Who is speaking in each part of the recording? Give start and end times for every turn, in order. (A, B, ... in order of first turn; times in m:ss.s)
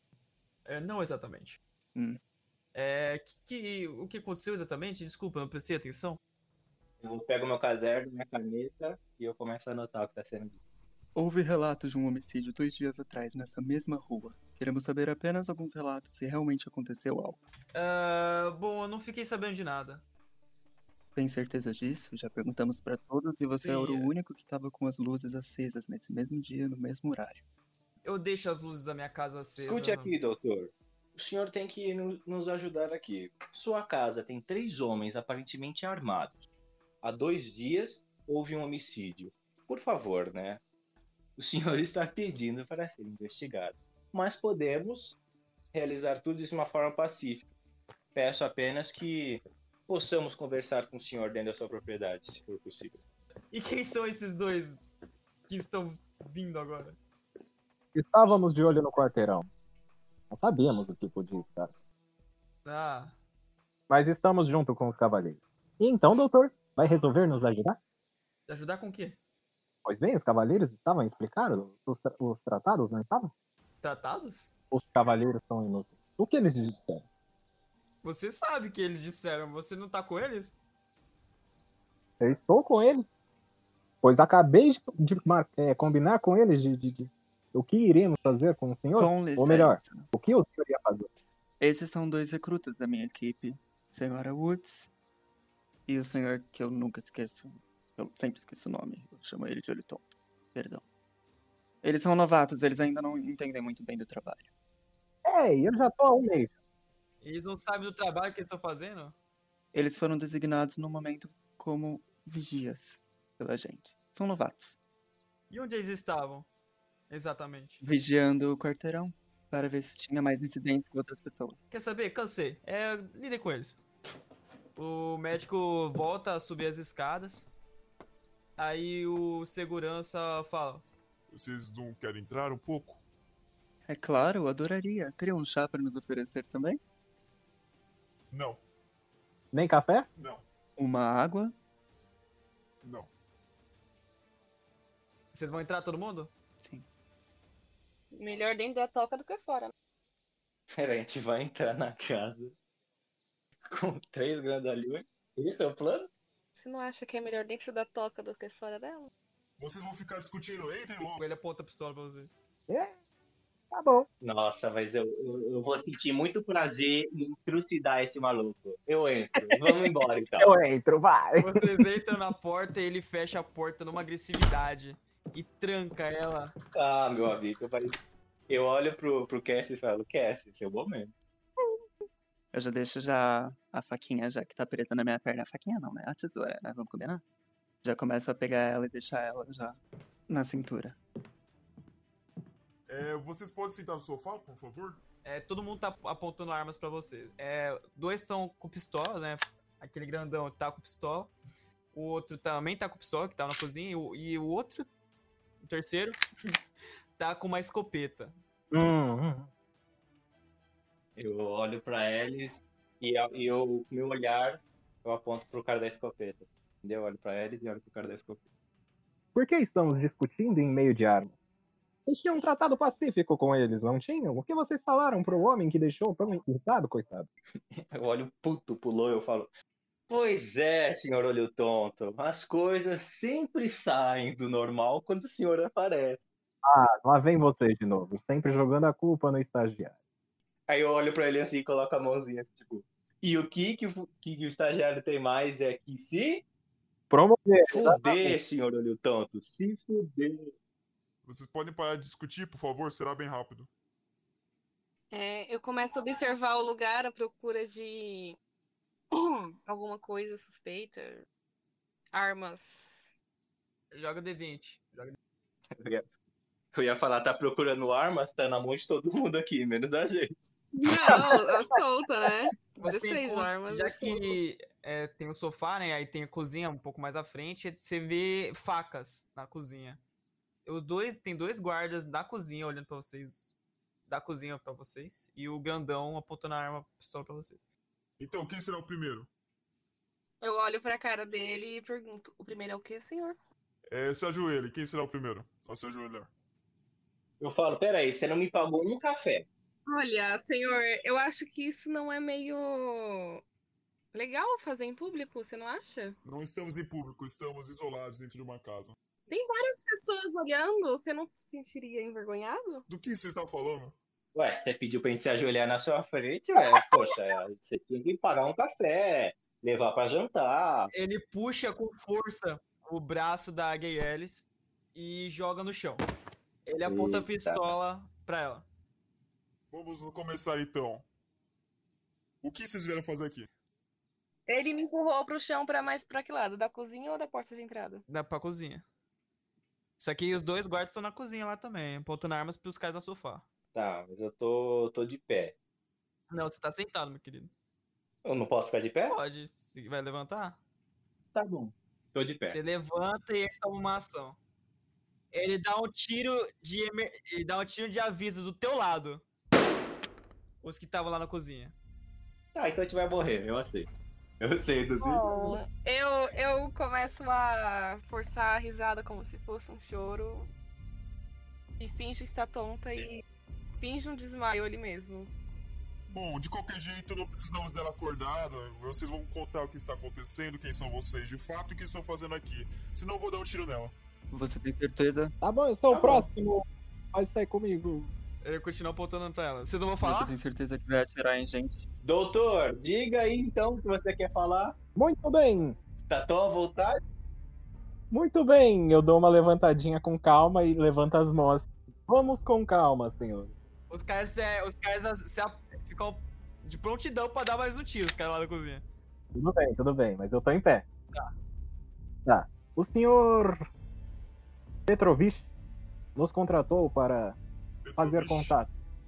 0:00.6-0:01.6 A
0:02.7-0:06.2 A
0:07.0-0:10.6 B
0:11.1-0:17.4 C
0:17.7-0:20.0 A
0:21.1-0:27.4 C
0:23.6-0:24.1 A
0:28.0-0:30.1 A
0:29.6-0:36.4 B
0:37.0-0:40.6 B
0:41.4-0:45.2 B
0:45.7-0:47.5 B
0:48.1-0:53.0 B
0:53.5-0:54.8 A
0:55.5-0:57.0 A
0:57.9-0:59.5 D
1:00.3-1:01.7 D
1:02.6-1:03.1 A
1:03.9-1:07.8 D
1:08.5-1:09.2 A
1:09.8-1:13.3 D
1:13.8-1:14.5 A
1:14.7-1:17.0 D
1:18.0-1:20.6 A
1:22.2-1:23.1 D
1:24.0-1:31.1 D
1:28.9-1:30.1 C
1:31.6-1:34.9 C
1:35.9-1:40.8 C
1:41.8-1:44.5 C
1:45.2-1:46.5 D
1:47.2-1:49.1 A
1:49.7-1:54.8 C
1:55.5-1:56.5 A
1:57.1-1:57.8 A
1:57.8-2:01.6 C
2:01.7-2:03.8 A
2:04.8-2:07.5 A
2:08.6-2:10.8 A
2:11.3-2:13.0 E
2:13.8-2:16.8 C
2:18.3-2:18.6 E
2:19.5-2:20.1 D
2:20.2-2:20.4 E
2:20.8-2:21.5 C
2:22.8-2:23.1 E
2:25.3-2:26.3 A
2:26.6-2:26.8 C
2:28.1-2:29.7 F
2:30.7-2:32.5 B
2:33.7-2:36.1 B
2:36.6-2:39.1 F
2:39.6-2:41.2 E
2:41.2-2:42.3 A
2:42.7-2:42.9 D
2:43.7-2:44.1 D
2:44.2-2:50.6 B
2:50.4-2:51.8 D
2:51.4-2:56.5 A
2:56.7-2:58.0 B
2:58.5-3:01.1 B
3:02.5-3:07.2 C
3:07.8-3:11.0 C
3:12.9-3:15.0 E
3:15.2-3:21.3 A
3:21.9-3:24.9 A
3:25.6-3:26.2 A
3:27.2-3:28.3 A
3:28.7-3:29.5 D
3:31.2-3:38.4 B
3:39.3-3:41.3 D
3:42.0-3:47.3 D
3:47.7-3:49.5 B
3:50.1-3:56.2 B
3:56.6-3:59.9 D
4:00.7-4:06.4 B
4:07.1-4:08.4 D
4:07.7-4:10.5 B
4:11.2-4:13.7 E
4:15.1-4:18.4 F
4:19.1-4:21.2 F
4:22.1-4:23.1 F
4:23.9-4:25.2 A
4:25.8-4:26.0 B
4:26.7-4:30.5 B
4:30.7-4:34.4 F
4:32.8-4:40.0 A
4:40.6-4:43.5 A
4:44.1-4:47.6 A
4:48.2-4:49.3 E
4:50.4-4:53.4 F
4:53.9-4:56.3 E
4:57.4-4:59.5 B
4:59.9-5:03.4 F
5:04.1-5:06.2 F
5:06.2-5:08.9 E
5:09.3-5:12.8 F
5:12.9-5:13.9 E
5:14.3-5:20.9 B
5:16.7-5:17.1 F
5:20.9-5:26.0 A
5:26.6-5:28.6 A
5:26.8-5:27.8 B
5:29.7-5:31.0 E
5:32.4-5:33.5 E
5:34.5-5:38.0 F
5:38.1-5:38.8 A
5:40.0-5:43.4 A
5:43.7-5:45.6 B
5:46.3-5:47.5 A
5:48.2-5:49.2 B
5:49.1-5:50.6 A
5:51.3-5:52.6 B
5:52.5-5:54.4 A
5:55.3-5:59.2 A
6:00.6-6:01.7 A
6:02.5-6:03.9 B
6:04.4-6:05.6 B
6:05.0-6:10.5 F
6:11.8-6:13.2 F
6:13.8-6:15.3 F
6:16.1-6:23.9 E
6:24.3-6:25.3 C
6:25.4-6:28.1 D
6:25.9-6:26.3 B
6:28.4-6:30.4 A
6:30.0-6:31.8 C
6:32.0-6:34.7 B
6:35.0-6:35.8 D
6:36.1-6:37.0 B
6:38.1-6:43.5 D
6:43.9-6:48.8 A
6:49.3-6:50.8 D
6:52.2-6:53.6 D
6:54.9-6:55.5 D
6:56.2-6:57.4 D
6:57.8-6:58.5 E
6:58.0-6:58.7 D